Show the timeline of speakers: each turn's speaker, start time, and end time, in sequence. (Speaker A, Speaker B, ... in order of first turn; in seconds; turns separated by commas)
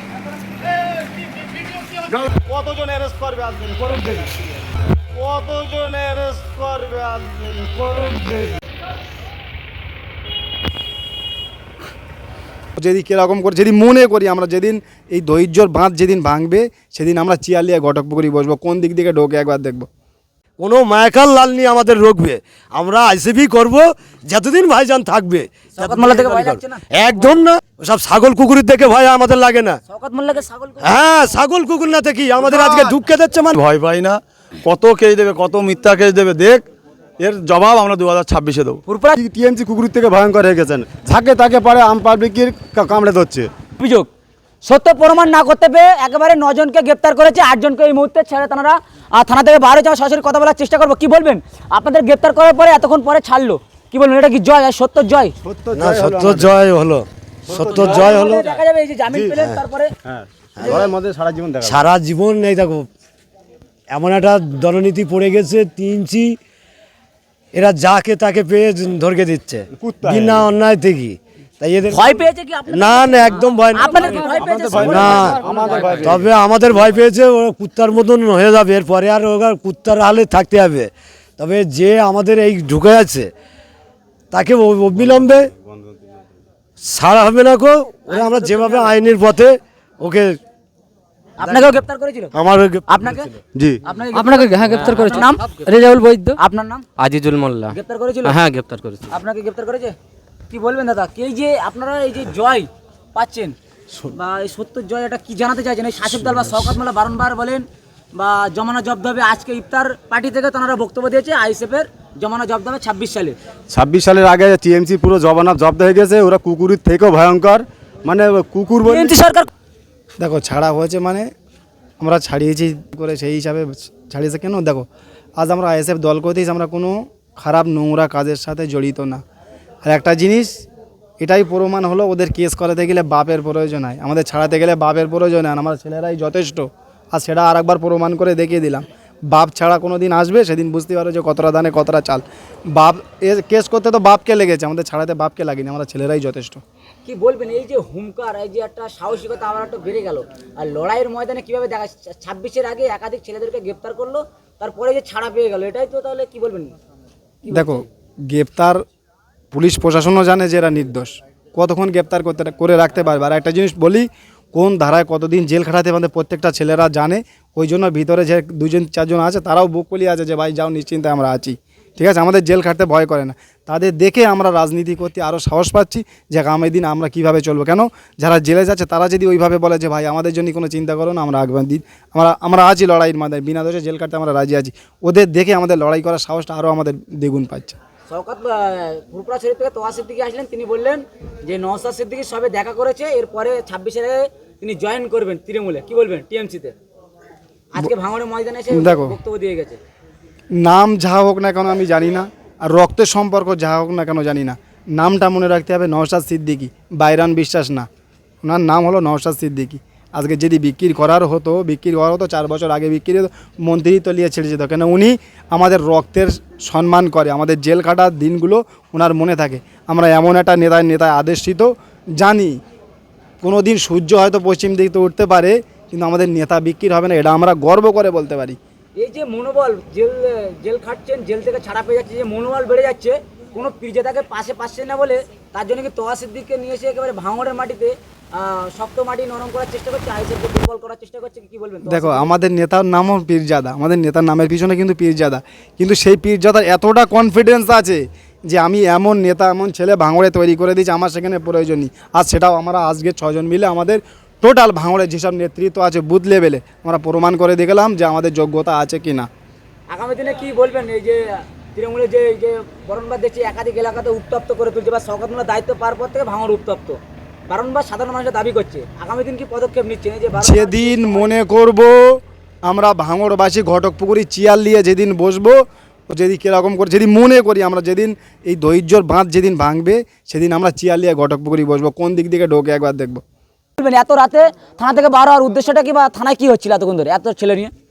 Speaker A: 1.0-4.3, Speaker A: 5.1-8.6, Speaker A: 12.8-19.9, Speaker B: 20.6-29.8, Speaker C: 25.8-26.9, Speaker C: 29.9-30.9, Speaker B: 30.8-33.6, Speaker D: 32.5-33.0, Speaker D: 33.5-36.7, Speaker D: 37.2-38.8, Speaker C: 38.9-39.2, Speaker E: 39.2-43.5, Speaker C: 43.8-44.1, Speaker C: 44.6-55.3, Speaker E: 55.4-56.5, Speaker B: 55.8-58.4, Speaker E: 57.5-58.4, Speaker C: 57.5-59.9, Speaker E: 59.1-59.4, Speaker E: 60.1-61.8, Speaker B: 60.6-60.9, Speaker B: 61.6-62.9, Speaker B: 63.9-66.4, Speaker B: 67.5-74.0, Speaker E: 69.8-70.5, Speaker C: 71.9-75.8, Speaker E: 74.1-76.2, Speaker B: 74.8-75.4, Speaker B: 76.0-83.3, Speaker B: 84.3-85.5, Speaker B: 86.8-90.4, Speaker C: 88.1-88.9, Speaker C: 91.4-92.3, Speaker B: 92.3-93.2, Speaker C: 92.9-93.3, Speaker C: 93.9-95.6, Speaker F: 94.3-95.1, Speaker F: 95.7-96.2, Speaker C: 96.4-96.9, Speaker F: 97.0-99.1, Speaker C: 97.7-98.4, Speaker C: 99.1-100.0, Speaker C: 100.5-103.6, Speaker C: 104.1-113.4, Speaker E: 113.7-119.2, Speaker C: 118.8-119.5, Speaker A: 120.2-121.3, Speaker A: 122.0-124.9, Speaker A: 125.4-129.2, Speaker A: 129.8-130.6, Speaker A: 131.2-146.6, Speaker C: 147.1-156.7, Speaker C: 157.4-157.8, Speaker A: 157.5-158.8, Speaker A: 159.5-187.8, Speaker C: 188.1-196.8, Speaker C: 197.7-199.8, Speaker A: 198.7-199.2, Speaker A: 200.6-207.9, Speaker A: 208.4-222.6, Speaker A: 223.4-228.6, Speaker C: 229.0-242.3, Speaker A: 241.9-259.3, Speaker C: 259.9-271.2, Speaker A: 270.4-283.2, Speaker C: 283.8-287.7